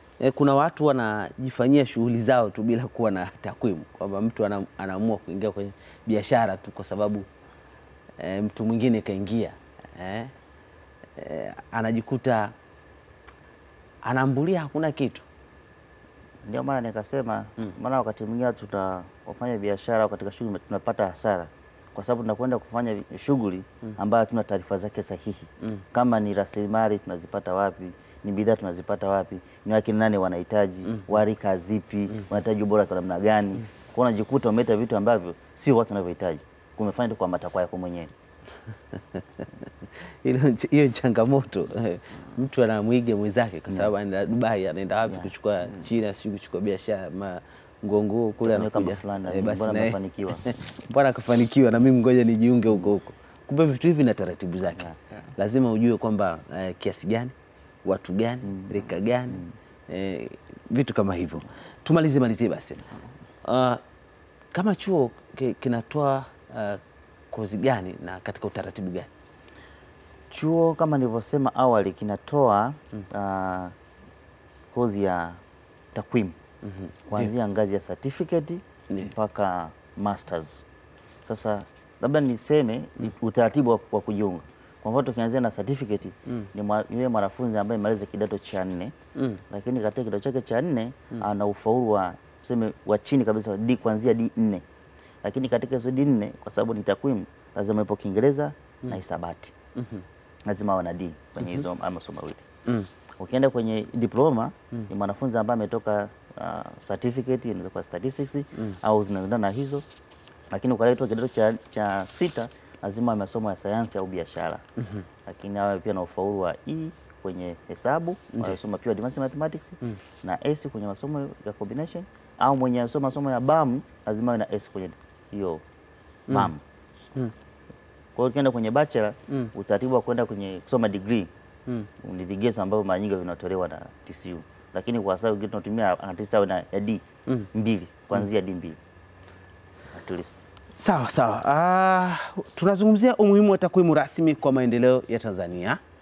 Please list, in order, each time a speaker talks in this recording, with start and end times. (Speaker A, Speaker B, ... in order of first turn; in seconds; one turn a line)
Speaker A: 0.2-7.3
Speaker A: 8.2-10.3
Speaker A: 11.2-12.6
Speaker A: 14.0-15.2
Speaker B: 16.4-38.1
Speaker A: 39.2-62.9
Speaker B: 48.4-50.5
Speaker B: 58.5-58.8
Speaker A: 63.4-63.8
Speaker A: 64.5-66.8
Speaker A: 67.3-69.1
Speaker B: 70.3-73.7
Speaker B: 74.7-75.4
Speaker B: 75.9-76.4
Speaker A: 76.6-77.3
Speaker B: 77.1-80.6
Speaker B: 81.2-89.0
Speaker A: 89.2-89.4
Speaker B: 89.5-94.6
Speaker B: 95.2-99.5
Speaker A: 99.8-100.0
Speaker B: 100.5-102.5
Speaker B: 103.2-109.8
Speaker B: 110.5-114.6
Speaker A: 114.8-115.0
Speaker B: 115.3-125.6
Speaker A: 118.3-118.6
Speaker B: 126.3-126.6
Speaker B: 128.2-131.3
Speaker B: 132.0-138.8
Speaker B: 139.9-140.4
Speaker A: 140.8-145.8